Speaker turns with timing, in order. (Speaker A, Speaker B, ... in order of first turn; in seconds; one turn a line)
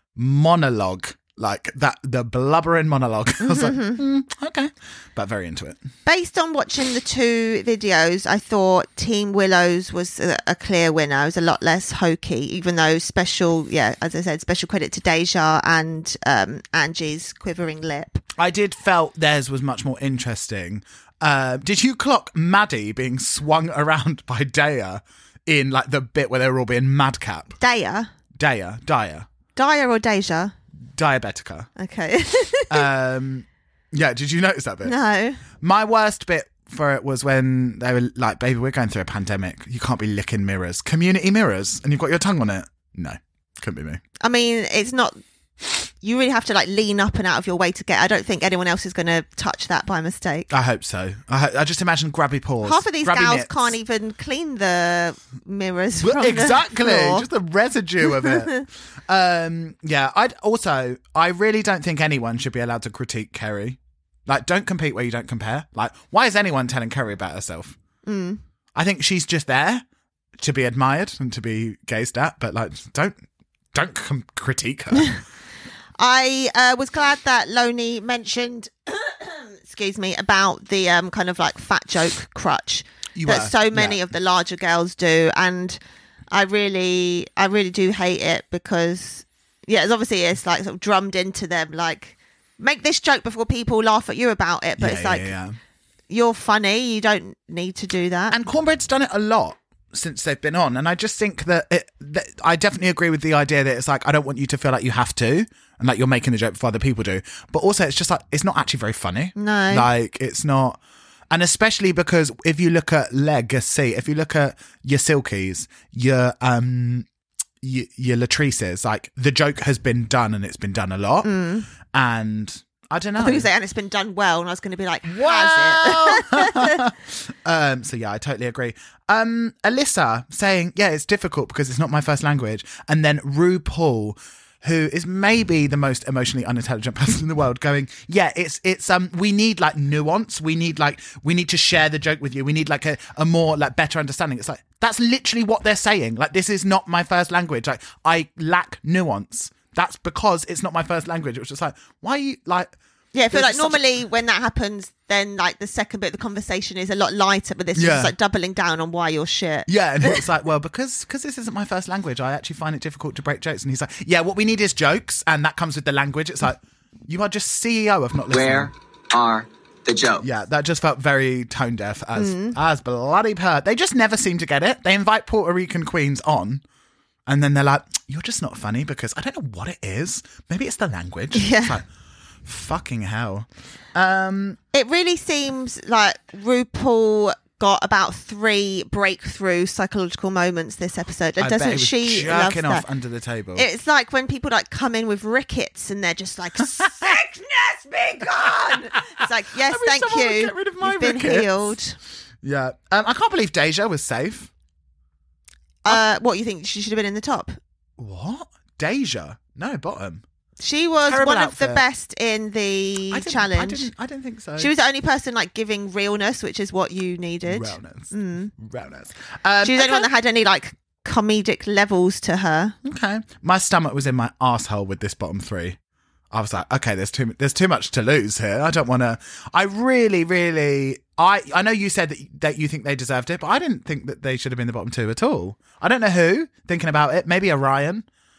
Speaker A: 0.2-5.8
Speaker B: 3.4-4.0
Speaker B: 6.1-18.2
Speaker A: 18.4-27.6
Speaker B: 27.6-28.1
Speaker A: 28.4-29.3
Speaker B: 29.6-30.6
Speaker A: 30.9-31.7
Speaker B: 31.8-32.9
Speaker A: 32.7-34.9
Speaker B: 34.8-35.4
Speaker A: 35.6-44.0
Speaker B: 44.2-45.2
Speaker B: 46.0-50.5
Speaker A: 50.5-53.8
Speaker B: 52.6-57.2
Speaker A: 56.0-67.8
Speaker B: 58.1-58.6
Speaker B: 68.0-68.4
Speaker A: 68.8-69.8
Speaker A: 70.4-73.2
Speaker A: 73.7-75.2
Speaker B: 76.0-85.8
Speaker A: 83.2-84.0
Speaker B: 86.3-95.3
Speaker A: 94.8-95.6
Speaker B: 96.1-98.4
Speaker A: 98.3-110.8
Speaker B: 109.4-109.9
Speaker A: 111.3-117.1
Speaker A: 117.6-121.3
Speaker B: 121.2-121.7
Speaker A: 121.9-123.5
Speaker B: 123.2-126.8
Speaker A: 125.1-152.7
Speaker B: 153.1-160.2
Speaker A: 153.3-153.8
Speaker A: 157.8-158.1
Speaker A: 159.7-168.7
Speaker C: 168.3-170.2
Speaker A: 170.2-176.6
Speaker B: 172.2-172.6
Speaker A: 177.3-181.8
Speaker B: 181.3-181.8
Speaker A: 182.4-184.6
Speaker B: 184.7-192.8
Speaker A: 191.4-193.7
Speaker B: 193.6-202.0
Speaker A: 198.3-201.8
Speaker A: 202.4-204.5
Speaker B: 205.8-207.6
Speaker A: 208.0-210.2
Speaker B: 210.6-213.9
Speaker A: 211.1-211.8
Speaker A: 213.1-214.7
Speaker B: 214.6-218.5
Speaker A: 217.5-220.1
Speaker B: 219.6-222.8
Speaker A: 222.8-225.8
Speaker A: 226.3-238.1